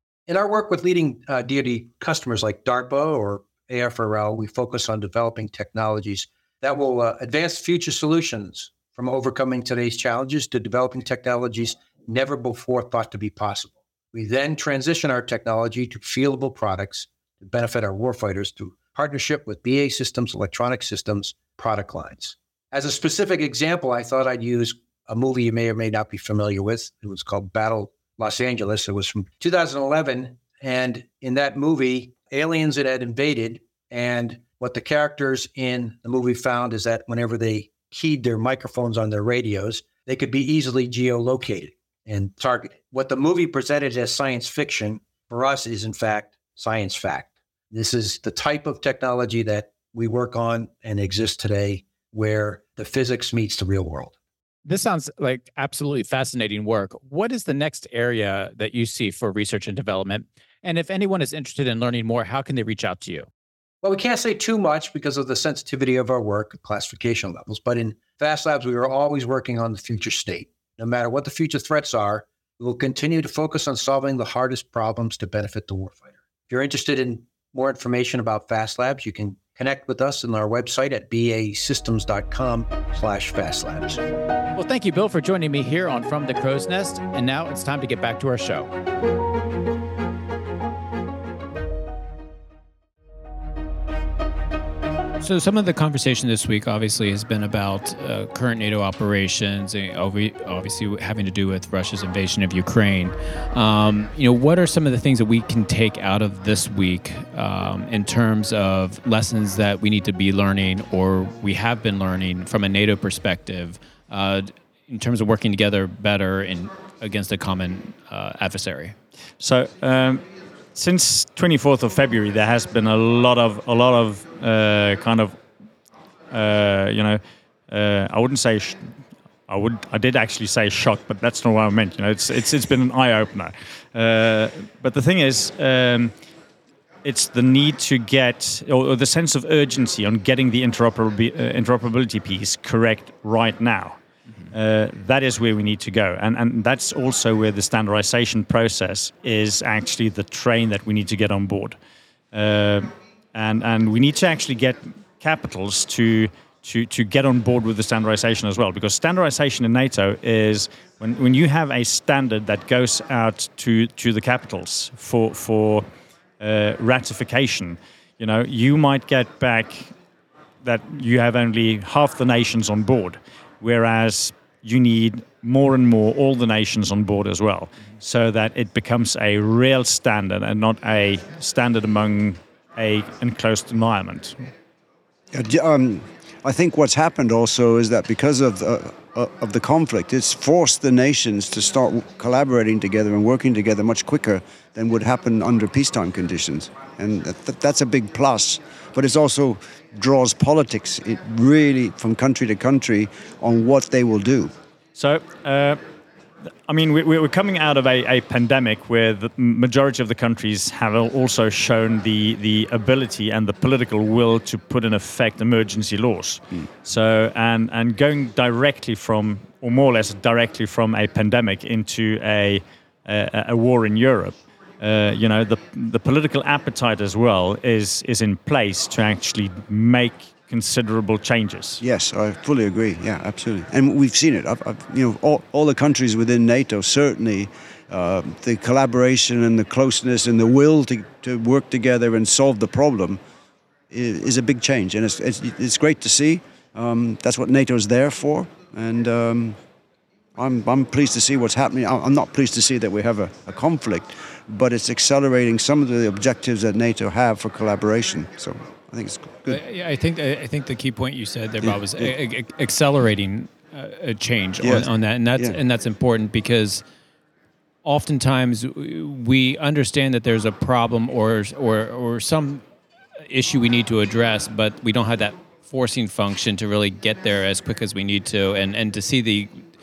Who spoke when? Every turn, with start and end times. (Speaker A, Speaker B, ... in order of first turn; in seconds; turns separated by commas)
Speaker A: 0.3-54.1, Speaker B: 54.7-63.3, Speaker A: 63.8-84.0, Speaker B: 84.6-88.7, Speaker B: 95.2-119.0, Speaker C: 119.4-120.2, Speaker C: 120.8-125.4, Speaker C: 126.3-128.9, Speaker C: 129.5-136.1, Speaker C: 137.0-144.0, Speaker C: 144.5-151.8, Speaker C: 152.3-165.9, Speaker C: 166.4-169.9, Speaker C: 170.6-184.4, Speaker D: 185.3-204.5, Speaker C: 205.0-205.8, Speaker C: 206.7-231.8, Speaker D: 231.8-243.2, Speaker D: 243.9-249.6, Speaker D: 250.4-259.6, Speaker B: 259.5-266.8, Speaker D: 264.6-265.6, Speaker B: 267.8-272.6, Speaker B: 273.2-279.6